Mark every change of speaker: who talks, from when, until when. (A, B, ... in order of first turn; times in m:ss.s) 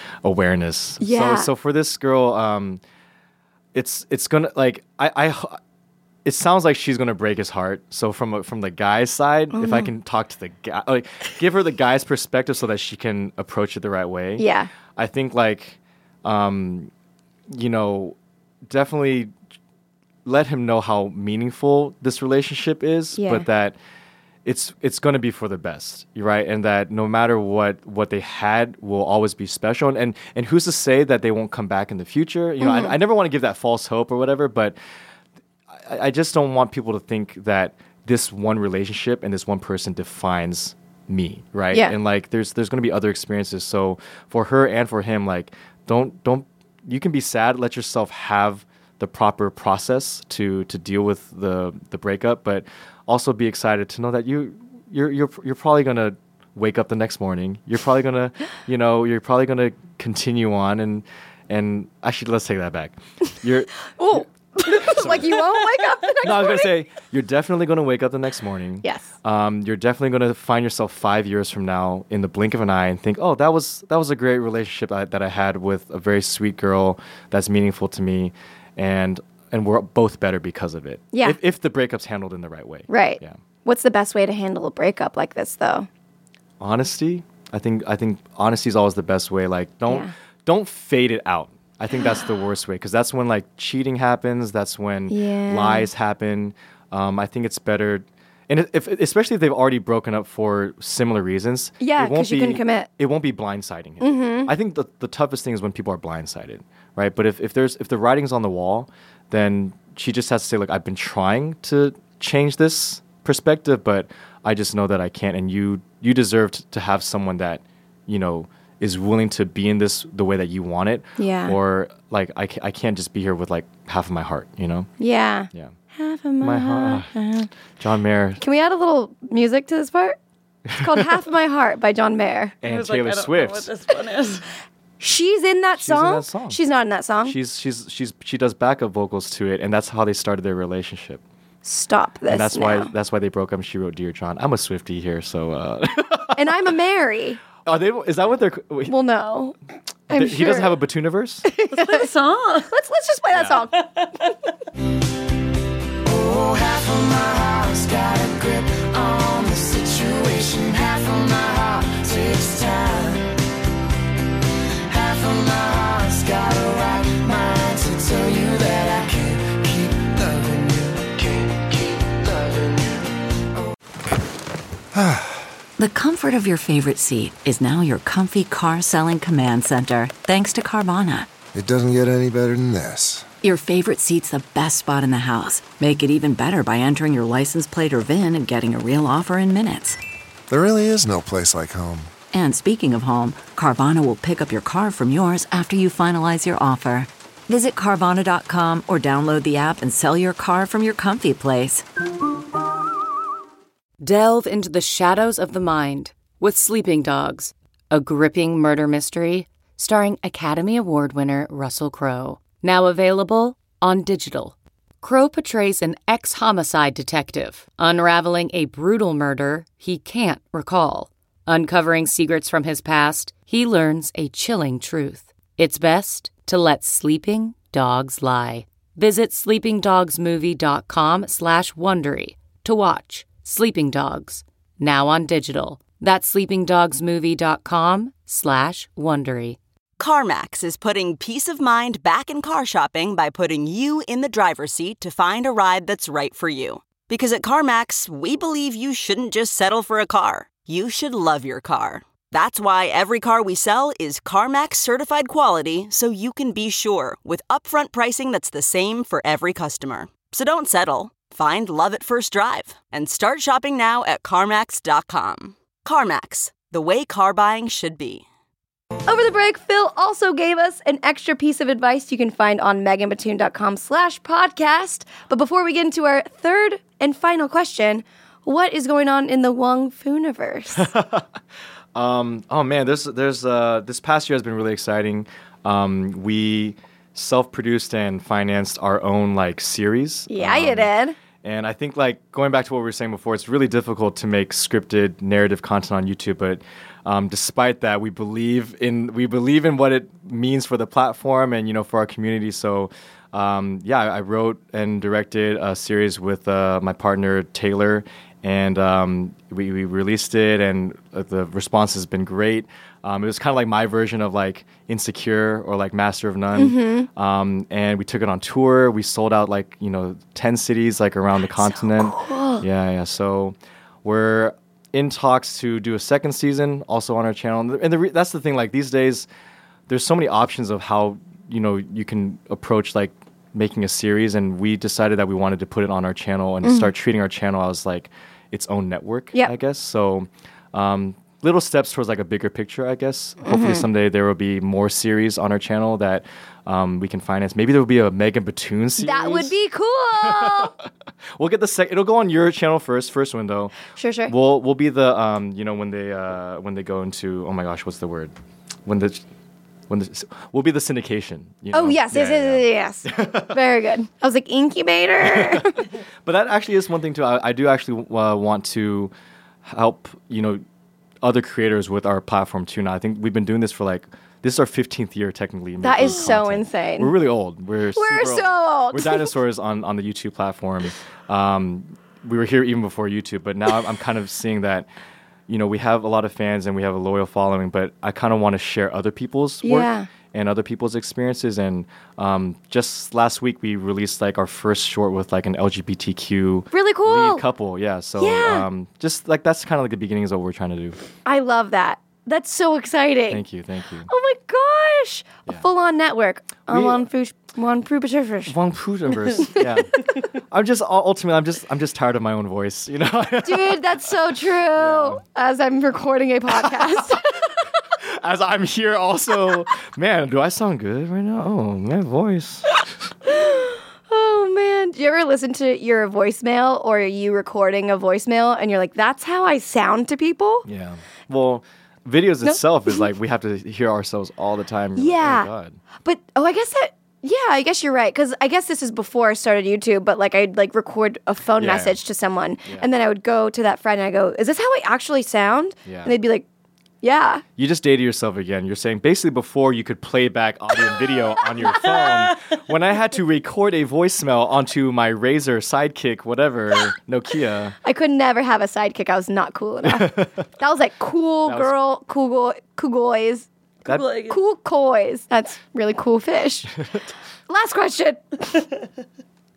0:00.2-0:02.8 A
0:01.0-0:01.5 B
0:03.7-0:05.6 A
0:06.2-0:16.9 A
0:09.5-0:09.9 B
0:14.4-0:14.7 B
0:17.5-0:19.3 A
0:20.2-0:23.8 A
0:23.2-0:23.5 B
0:24.4-0:34.8 A
0:32.6-0:32.9 B
0:35.7-1:05.6 A
1:04.0-1:06.7 B
1:06.2-1:23.4 A
1:08.8-1:09.1 B
1:21.1-1:21.4 B
1:22.9-1:25.9 B
1:26.6-2:04.9 A
1:35.1-1:35.9 B
1:41.8-1:42.9 B
1:44.0-1:44.5 B
2:01.2-2:01.6 B
2:05.0-2:07.5 B
2:06.4-2:07.1 A
2:07.8-2:08.4 A
2:08.4-2:10.2 B
2:10.7-2:11.2 A
2:10.7-2:12.6 B
2:12.6-2:13.7 A
2:12.6-2:14.5 C
2:15.0-2:17.4 B
2:15.8-2:16.6 A
2:17.2-2:21.2 A
2:21.6-2:22.9 B
2:22.3-2:26.5 A
2:26.3-2:27.4 B
2:27.6-2:28.9 A
2:28.9-2:29.6 B
2:30.1-2:30.8 B
2:30.1-2:31.4 A
2:31.5-2:32.1 B
2:31.7-2:32.7 C
2:32.7-2:33.8 B
2:33.3-2:33.6 A
2:36.0-2:43.3 D
2:44.9-2:53.2 D
2:54.9-2:55.4 E
2:55.8-3:01.3 F
3:01.5-3:03.3 E
3:03.4-3:10.0 F
3:10.5-3:12.1 E
3:12.3-3:21.8 F
3:24.0-3:59.6 G
4:00.0-4:28.2 H
4:29.1-4:40.9 B
4:40.8-4:41.3 A
4:41.9-4:50.9 A
4:50.3-4:51.2 B
4:51.4-5:29.3 A
5:16.5-5:17.1 B
5:21.7-5:22.6 B
5:29.9-5:49.6 A
5:36.6-5:36.9 B
5:43.4-5:43.8 B
5:49.0-5:50.7 B
5:50.1-5:50.8 A
5:51.3-5:53.7 A
5:54.0-5:54.3 B
5:54.3-5:58.3 A
5:58.8-5:59.2 A
5:59.9-6:03.6 A
6:01.7-6:05.8 B
6:05.2-6:09.1 A
6:09.6-6:10.6 A
6:11.2-6:24.9 A
6:15.8-6:17.1 B
6:17.9-6:19.3 B
6:25.5-6:41.0 A
6:29.6-6:30.1 B
6:36.7-6:37.4 B
6:38.2-6:38.6 B
6:41.2-6:43.4 B
6:43.3-6:44.1 A
6:44.1-6:48.6 B
6:46.7-6:47.0 A
6:48.5-6:54.1 A
6:49.1-6:49.8 B
6:53.4-6:57.2 B
6:54.7-6:55.2 A
6:56.5-6:57.2 A
6:58.0-7:02.7 A
7:03.2-7:10.6 B
7:10.6-7:15.8 A
7:12.4-7:13.0 B
7:15.0-7:15.5 B
7:16.0-7:26.4 B
7:21.6-7:22.0 A
7:25.8-7:26.2 A
7:27.0-7:27.4 B
7:27.6-7:37.7 A
7:37.8-7:43.5 B
7:39.8-7:40.4 A
7:41.4-7:41.7 A
7:43.9-7:44.3 C
7:44.1-7:46.7 B
7:47.5-7:48.7 B